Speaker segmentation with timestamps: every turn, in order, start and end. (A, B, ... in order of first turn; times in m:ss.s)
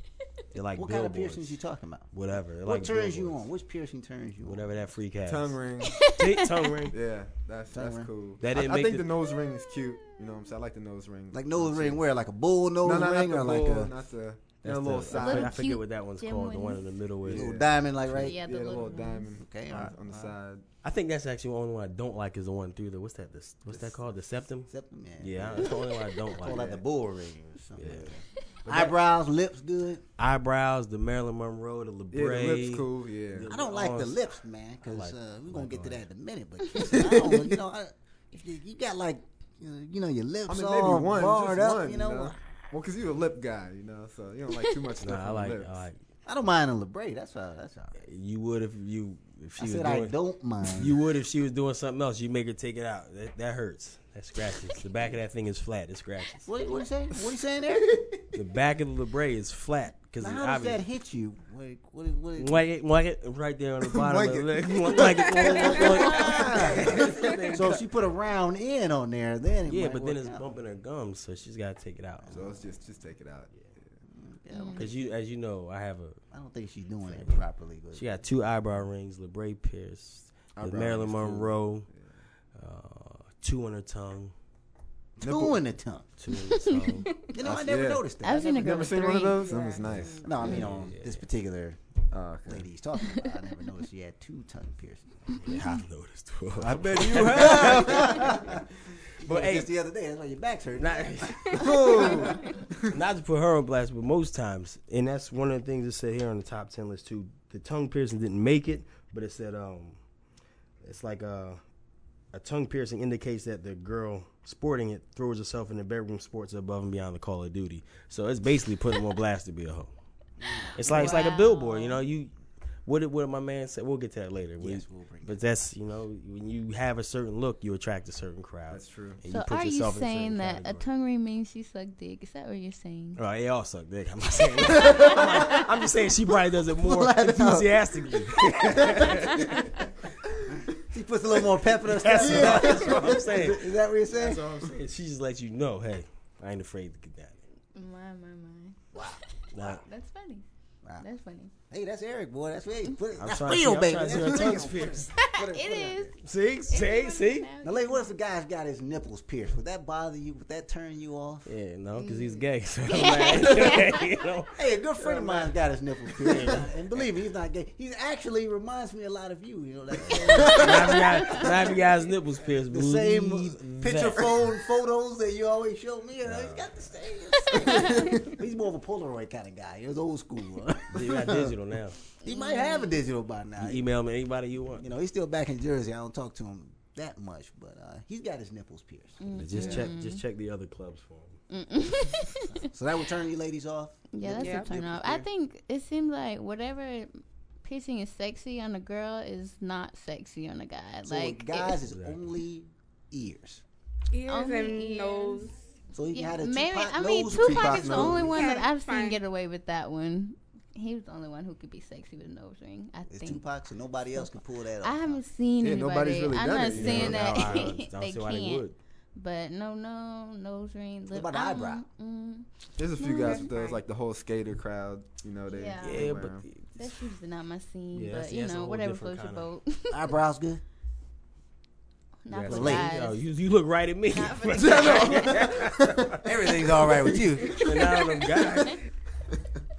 0:00.5-0:01.6 A
0:00.8-0:02.1 B
0:02.1-0:03.4 A
0:02.6-0:04.7 B
0:04.4-0:05.6 A
0:05.2-0:06.0 C
0:05.8-0:06.8 D
0:06.2-0:07.0 A
0:06.9-0:12.0 C
0:07.7-0:08.1 B
0:08.4-0:09.1 A
0:09.3-0:10.5 D
0:11.3-0:13.9 B
0:12.8-0:15.6 C
0:14.6-0:17.6 A
0:15.1-0:16.9 D
0:17.2-0:20.6 C
0:17.3-0:18.4 B
0:18.2-0:19.4 D
0:19.4-0:20.4 B
0:20.8-0:24.7 A
0:23.7-0:24.1 B
0:24.7-0:25.7 B
0:25.2-0:26.8 A
0:26.4-0:30.0 B
0:27.8-0:28.2 C
0:27.8-0:28.1 A
0:28.7-0:29.0 A
0:30.2-0:34.2 A
0:32.1-0:33.5 C
0:33.5-0:42.7 B
0:34.9-0:36.0 A
0:36.9-0:37.6 C
0:40.5-0:45.8 C
0:45.0-0:46.0 A
0:46.3-0:48.0 B
0:48.0-0:50.2 A
0:49.6-0:51.0 B
0:50.7-0:56.5 A
0:56.4-0:58.2 B
0:58.3-1:00.8 A
1:00.2-1:02.6 B
1:02.4-1:07.8 A
1:03.8-1:07.4 C
1:05.3-1:10.5 B
1:09.7-1:12.3 A
1:12.2-1:12.6 B
1:12.3-1:13.9 C
1:14.1-1:15.0 B
1:14.5-1:14.9 D
1:14.8-1:16.2 A
1:16.3-1:18.1 B
1:17.1-1:21.9 A
1:20.6-1:22.0 C
1:22.6-1:24.3 A
1:25.2-1:26.1 B
1:25.2-1:25.6 C
1:26.2-1:27.1 A
1:26.5-1:27.0 D
1:27.3-1:29.0 B
1:27.4-1:30.2 C
1:28.2-1:29.5 D
1:29.3-1:30.4 E
1:30.2-1:31.8 B
1:30.4-1:31.2 A
1:32.1-1:32.7 C
1:32.5-1:35.4 B
1:35.3-1:35.8 D
1:35.4-1:38.4 A
1:36.6-1:38.5 C
1:37.1-1:38.6 B
1:39.2-1:42.3 B
1:39.3-1:39.7 A
1:40.8-1:41.7 A
1:41.5-1:42.5 E
1:41.5-1:43.0 C
1:42.9-1:50.0 A
1:50.8-1:51.6 A
1:52.3-1:59.9 A
2:00.4-2:01.2 B
2:00.8-2:02.3 A
2:00.8-2:02.0 D
2:02.8-2:10.9 A
2:04.6-2:05.4 B
2:08.7-2:09.2 C
2:09.3-2:13.2 D
2:13.2-2:19.5 A
2:14.5-2:15.6 D
2:16.7-2:19.7 B
2:19.2-2:19.8 D
2:20.4-2:24.4 B
2:21.8-2:27.4 A
2:22.4-2:23.2 C
2:27.7-2:30.4 D
2:28.9-2:29.8 B
2:29.5-2:29.8 A
2:31.0-2:31.5 D
2:31.7-2:36.2 B
2:33.2-2:35.1 A
2:35.1-2:38.1 D
2:36.2-2:37.5 A
2:37.6-2:41.5 B
2:41.5-2:45.6 A
2:42.0-2:44.1 D
2:44.5-2:51.7 B
2:46.1-2:47.1 A
2:50.2-2:50.9 C
2:50.5-2:54.3 A
2:52.7-3:01.0 B
2:53.6-2:54.4 C
2:56.2-2:56.8 A
2:57.4-2:58.1 D
2:57.8-2:58.1 C
3:00.9-3:02.0 A
3:02.2-3:03.0 D
3:02.2-3:03.9 B
3:03.6-3:04.8 A
3:04.8-3:09.2 B
3:09.2-3:10.2 D
3:09.3-3:11.4 A
3:09.5-3:09.9 C
3:11.5-3:12.7 D
3:12.7-3:15.2 B
3:14.1-3:17.1 D
3:14.4-3:14.8 E
3:17.6-3:21.8 D
3:21.0-3:23.6 B
3:21.8-3:22.4 A
3:24.1-3:25.5 E
3:24.3-3:33.4 D
3:25.9-3:28.3 B
3:27.4-3:28.3 C
3:28.2-3:29.2 E
3:33.1-3:35.2 B
3:34.1-3:43.5 D
3:35.6-3:37.8 C
3:36.7-3:38.8 A
3:41.1-3:41.8 B
3:42.8-3:46.5 C
3:43.2-3:43.8 E
3:45.5-3:46.0 D
3:45.8-3:46.9 A
3:46.8-3:50.2 D
3:47.9-3:49.5 A
3:49.9-3:50.6 B
3:52.2-3:53.2 D
3:52.3-3:56.2 A
3:52.4-3:52.9 B
3:54.1-3:55.4 D
3:54.6-3:56.1 C
3:56.2-3:58.0 B
3:56.9-3:57.4 C
3:57.5-3:58.8 A